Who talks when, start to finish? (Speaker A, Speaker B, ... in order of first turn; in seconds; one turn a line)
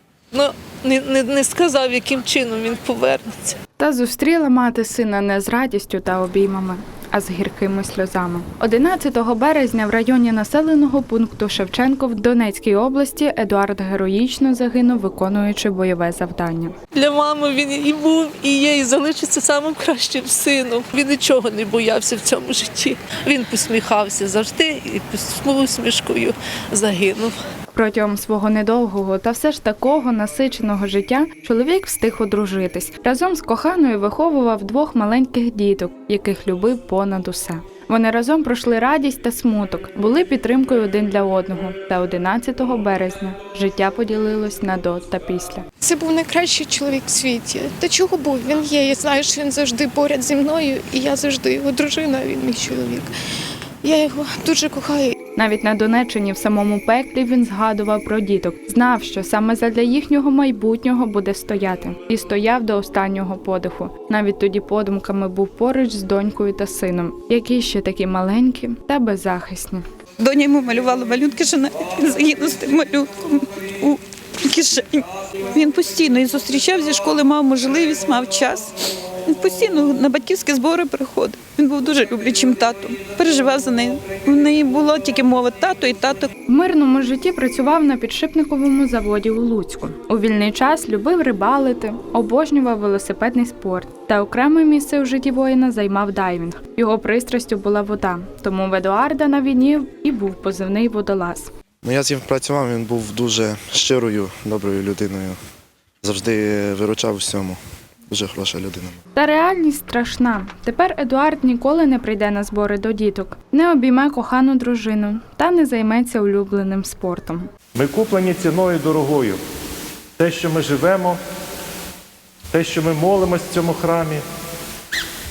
Speaker A: 0.3-3.5
Speaker B: 3.8-16.7
Speaker A: 16.9-27.4
Speaker B: 27.7-45.6
Speaker C: 45.9-53.0
Speaker C: 53.9-55.0
Speaker B: 55.4-69.8
Speaker D: 70.2-78.7
Speaker D: 79.2-86.3
Speaker B: 86.5-101.5
Speaker E: 101.8-105.4
Speaker E: 106.0-109.0
Speaker B: 109.1-117.5
Speaker F: 117.7-119.4
Speaker F: 120.2-121.2
Speaker F: 122.5-124.2